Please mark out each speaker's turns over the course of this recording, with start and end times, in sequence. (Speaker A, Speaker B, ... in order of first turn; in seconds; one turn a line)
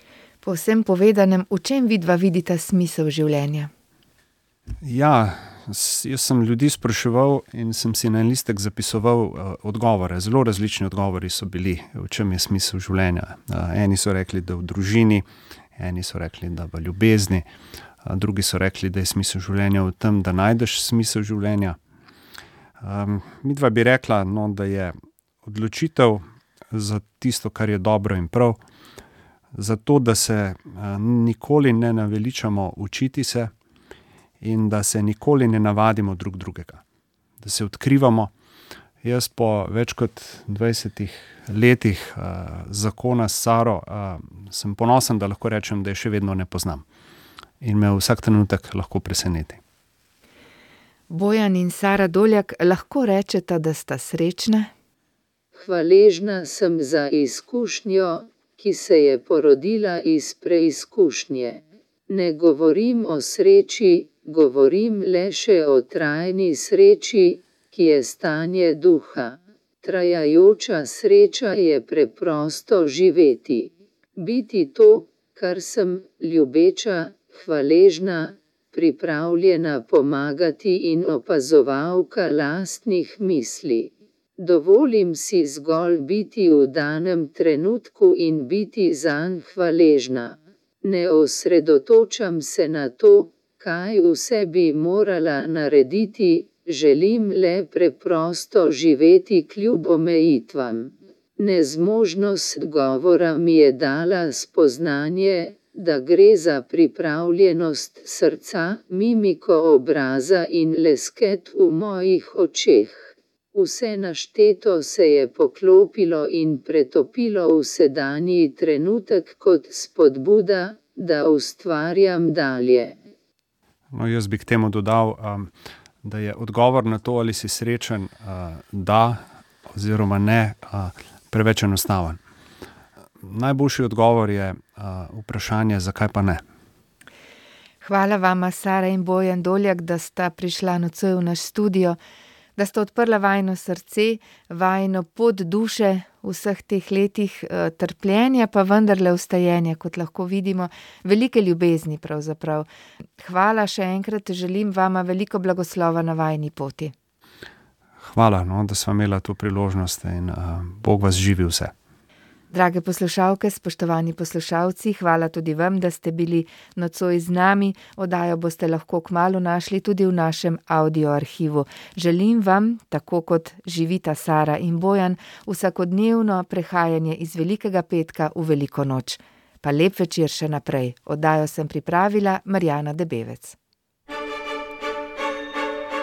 Speaker A: 0.4-3.7
Speaker B: 4.8-15.2
Speaker B: 15.8-17.5
Speaker B: 18.0-21.8
Speaker B: 22.8-28.6
Speaker B: 29.5-33.5
Speaker B: 34.4-36.8
Speaker B: 37.4-38.3
Speaker B: 39.0-46.8
Speaker B: 47.6-49.6
Speaker A: 51.1-54.7
Speaker C: 55.5-122.9
Speaker B: 123.9-125.5
Speaker B: 126.0-132.2
Speaker B: 133.2-136.4
Speaker A: 137.8-142.0
Speaker A: 142.6-152.7
Speaker A: 153.2-156.9
Speaker B: 158.0-161.7
Speaker A: 162.5-183.6